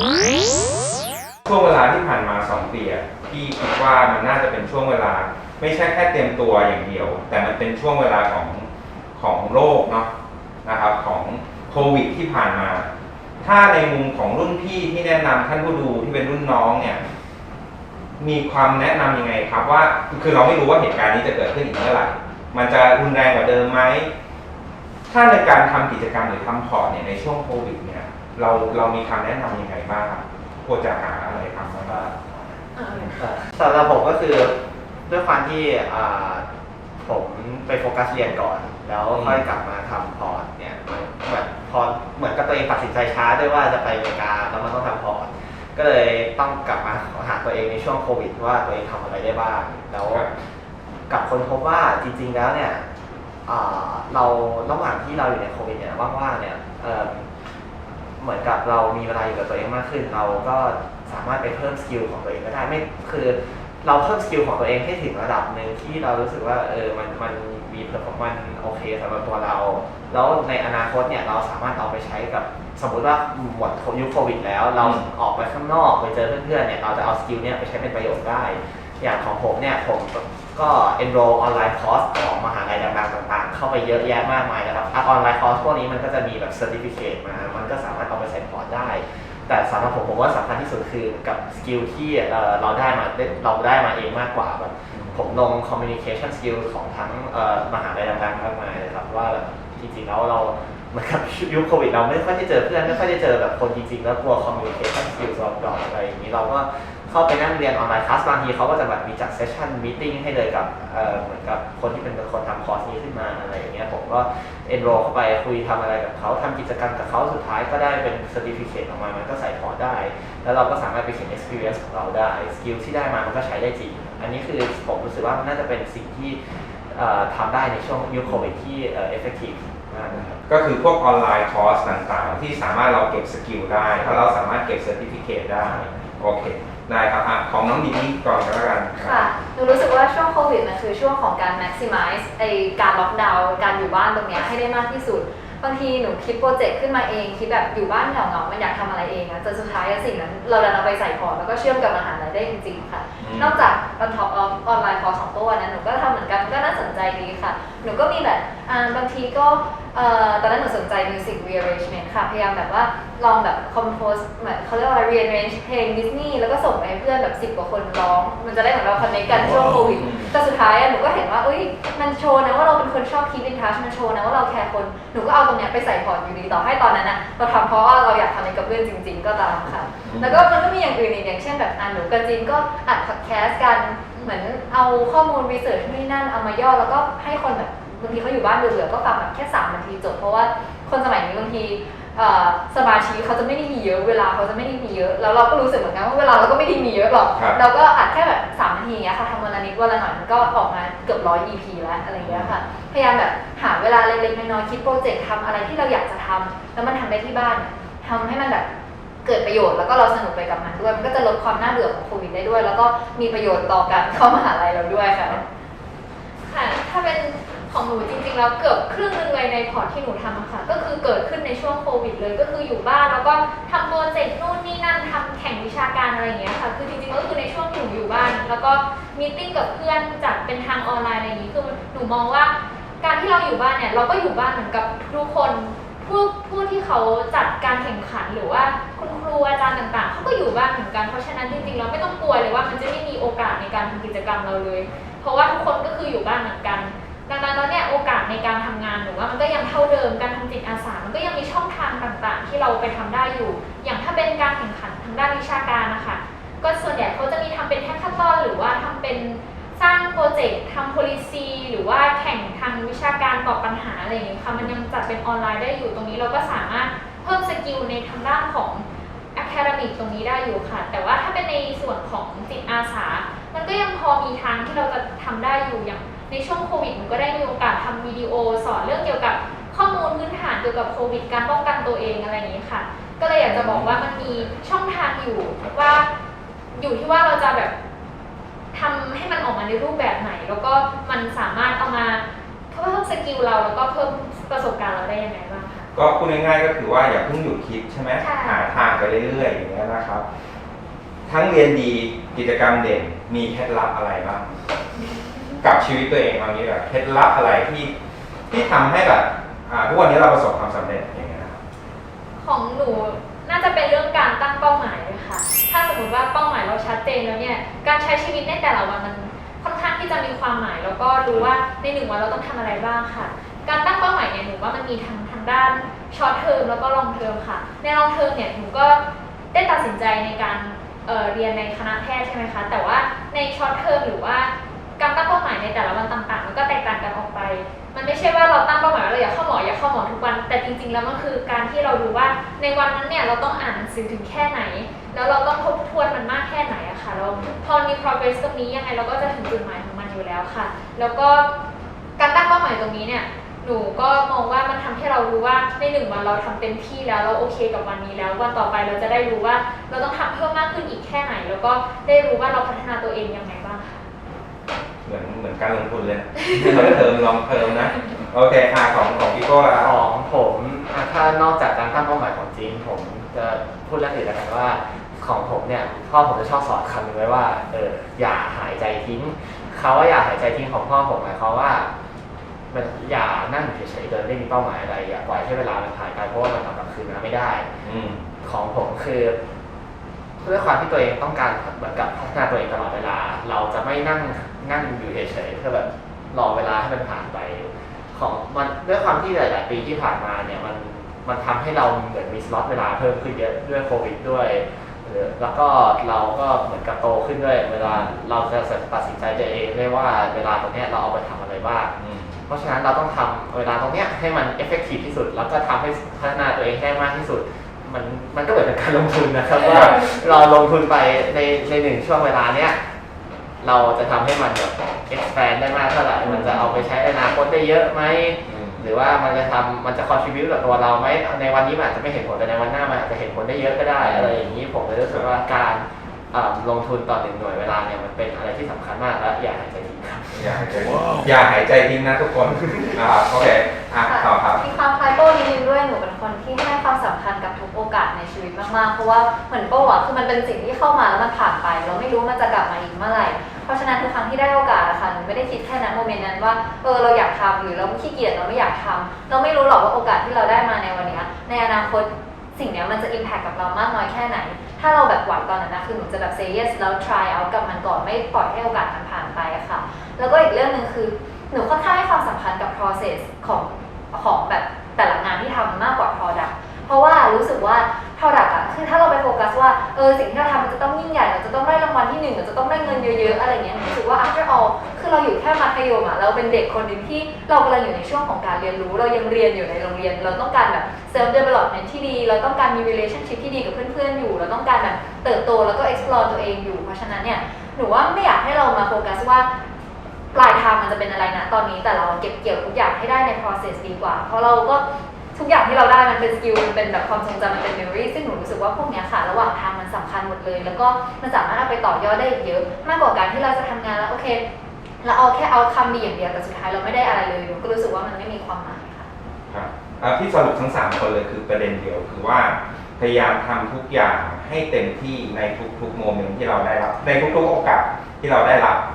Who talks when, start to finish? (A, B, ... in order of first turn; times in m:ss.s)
0:01.5-0:10.1 A
0:10.6-0:12.9 A
0:13.4-0:17.1 A
0:18.2-0:24.1 A
0:25.1-0:32.1 A
0:31.9-0:34.6 B
0:32.8-0:33.2 C
0:35.1-0:36.5 B
0:37.0-0:50.3 B
0:39.1-0:39.4 A
0:50.0-0:50.3 A
0:51.1-0:52.8 B
0:53.5-0:57.3 B
0:58.2-2:10.4 B
1:14.8-1:15.0 A
1:34.9-1:35.2 A
2:10.1-2:19.3 A
2:13.9-2:14.3 B
2:15.6-2:15.9 B
2:19.0-3:28.7 D
2:33.2-2:33.7 A
2:49.8-2:50.4 A
3:00.0-3:00.5 A
3:17.4-3:17.6 A
3:22.2-3:22.6 A
3:29.2-3:35.4 D
3:36.4-4:46.1 C
4:43.4-4:44.3 A
4:46.7-4:47.7 C
4:48.7-4:55.9 C
4:55.9-5:00.2 A
4:58.2-4:58.8 C
5:01.2-5:04.6 A
5:05.6-5:07.9 A
5:08.5-5:11.6 A
5:12.4-5:29.0 C
5:29.5-5:51.5 C
5:52.2-6:04.0 C
6:05.0-6:10.0 A
6:06.6-6:07.0 C
6:09.8-6:21.9 B
6:22.7-6:27.7 B
6:27.8-6:28.3 A
6:28.4-6:29.4 B
6:30.4-6:51.9 B
6:47.8-6:48.1 A
6:52.0-6:52.4 A
6:52.5-7:02.8 B
6:59.6-7:00.1 A
7:03.6-7:21.0 B
7:06.2-7:06.8 A
7:08.4-7:08.9 A
7:14.0-7:14.5 A
7:20.3-7:24.6 A
7:24.0-8:19.5 D
8:20.3-8:24.8 D
8:25.4-8:34.4 D
8:35.0-8:39.1 D
8:39.5-8:48.9 A